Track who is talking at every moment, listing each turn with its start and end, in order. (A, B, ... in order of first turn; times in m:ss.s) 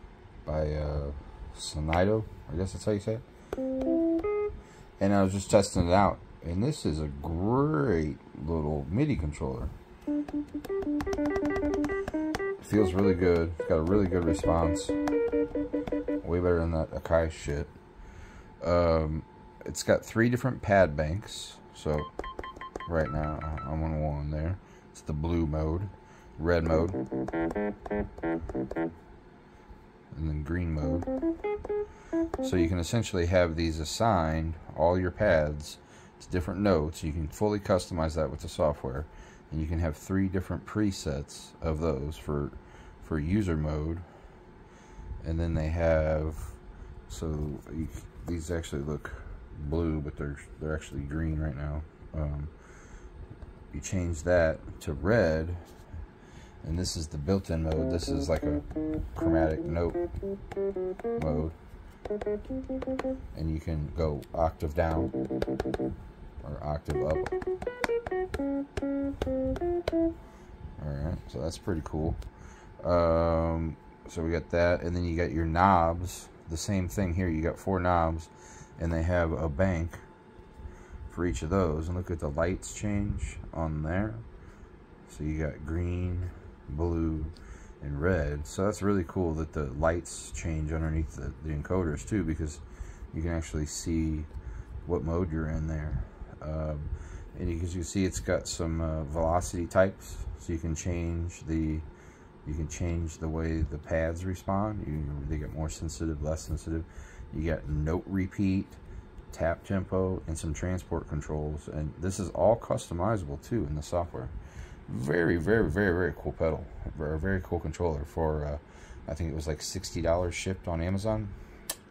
0:00.4-0:03.2 A
0:05.0-0:09.7 A
0:12.6-0:15.0 A
0:16.2-0:17.7 A
0:18.6-0:22.1 A
0:22.8-0:27.0 A
0:30.1-0:31.1 A
0:32.4-0:44.0 A
0:45.2-0:52.5 A
0:53.7-0:55.6 A
0:56.6-1:00.1 A
1:01.1-1:01.6 A
1:03.3-1:05.1 A
1:06.4-1:07.3 A
1:10.8-1:12.2 A
1:12.8-1:20.0 A
1:21.1-1:24.2 A
1:25.0-1:34.3 A
1:34.8-1:41.9 A
1:42.4-1:48.8 A
1:49.3-1:54.3 A
1:54.9-2:01.3 A